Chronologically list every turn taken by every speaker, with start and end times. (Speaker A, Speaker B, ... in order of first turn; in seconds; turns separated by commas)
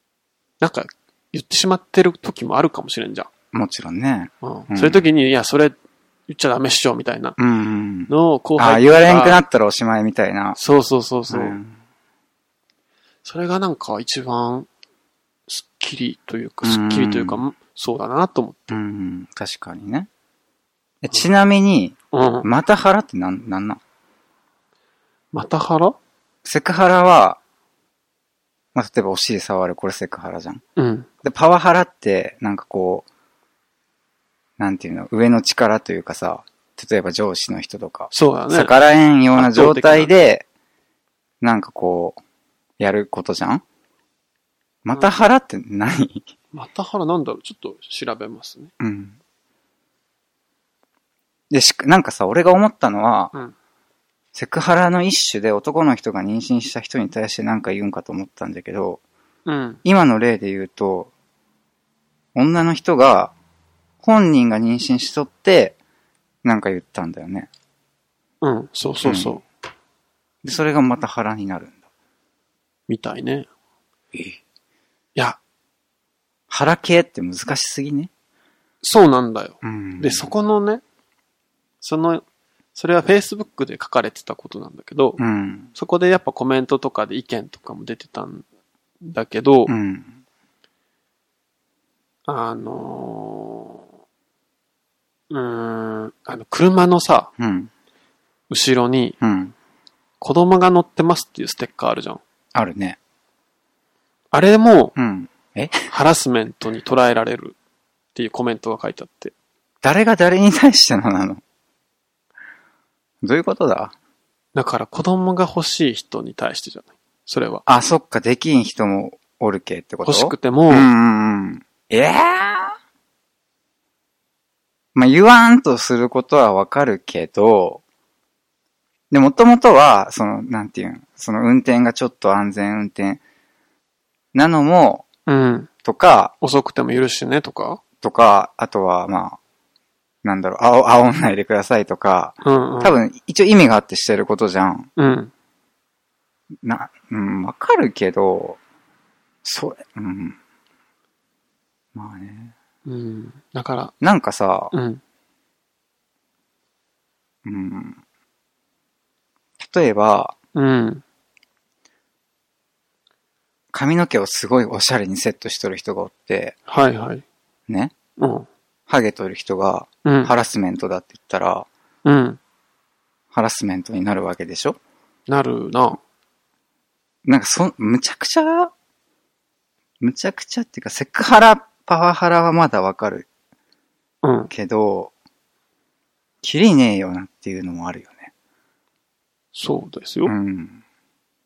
Speaker A: 0.6-3.3, Speaker B: 3.5-5.0, Speaker A: 4.4-5.8, Speaker A: 6.3-7.4, Speaker B: 7.4-10.6, Speaker A: 8.1-9.4, Speaker A: 10.6-11.6, Speaker B: 11.3-11.8, Speaker A: 13.2-14.7, Speaker A: 15.5-18.8, Speaker B: 16.6-17.4, Speaker B: 18.7-20.1, Speaker B: 21.0-23.8, Speaker A: 22.1-22.5, Speaker A: 25.3-26.0, Speaker B: 26.4-27.4, Speaker B: 28.8-30.6, Speaker A: 30.8-31.1, Speaker B: 31.2-33.0, Speaker B: 34.6-40.5, Speaker A: 38.1-38.7, Speaker A: 39.4-40.1, Speaker B: 41.4-42.2, Speaker B: 42.8-43.6, Speaker B: 44.9-46.3, Speaker A: 46.5-48.7, Speaker B: 48.8-49.2, Speaker B: 51.5-53.3, Speaker B: 54.3-59.0, Speaker A: 59.5-59.8, Speaker B: 59.8-61.1, Speaker B: 62.4-63.3, Speaker B: 64.0-65.8, Speaker B: 66.4-67.5, Speaker A: 68.4-69.4, Speaker B: 69.0-69.4, Speaker B: 70.4-71.8, Speaker A: 72.9-73.5, Speaker B: 74.1-74.4, Speaker B: 76.5-78.1, Speaker A: 78.8-80.8, Speaker B: 79.6-80.3, Speaker A: 81.8-82.2, Speaker A: 82.8-85.2, Speaker B: 85.2-85.7, Speaker A: 85.8-88.5, Speaker A: 89.0-89.7, Speaker B: 89.7-90.1, Speaker A: 92.3-93.8, Speaker A: 95.3-97.3, Speaker B: 97.4-97.7, Speaker A: 98.5-99.2, Speaker B: 99.2-99.5, Speaker A: 100.2-102.2, Speaker B: 102.5-103.0, Speaker A: 104.3-105.0, Speaker B: 105.0-105.9, Speaker A: 105.9-107.6, Speaker A: 108.2-109.3, Speaker B: 109.8-111.4, Speaker B: 113.2-113.9, Speaker A: 114.5-117.6, Speaker B: 117.7-122.8, Speaker A: 120.0-120.9, Speaker B: 125.0-127.8, Speaker B: 129.1-133.2, Speaker B: 134.3-135.1, Speaker A: 135.3-135.7, Speaker B: 135.8-136.3, Speaker A: 136.4-137.8, Speaker B: 138.0-139.4, Speaker B: 140.2-144.9, Speaker A: 142.4-142.9, Speaker A: 145.0-145.3, Speaker B: 146.6-148.6, Speaker B: 149.4-150.4, Speaker B: 151.9-152.5, Speaker A: 152.8-153.9, Speaker B: 154.0-154.7, Speaker A: 154.7-155.0, Speaker B: 157.4-158.0, Speaker B: 159.6-160.3, Speaker A: 160.6-161.0, Speaker B: 163.7-166.6, Speaker A: 166.7-167.2, Speaker B: 167.7-167.9, Speaker A: 168.2-168.5, Speaker B: 168.9-171.7, Speaker A: 170.1-170.3, Speaker A: 172.1-172.4, Speaker B: 173.3-174.8, Speaker A: 175.3-176.0, Speaker B: 177.2-178.7, Speaker B: 180.0-183.3, Speaker A: 184.2-184.5, Speaker B: 184.5-185.1, Speaker B: 186.4-188.3, Speaker A: 189.5-190.3, Speaker B: 190.3-190.8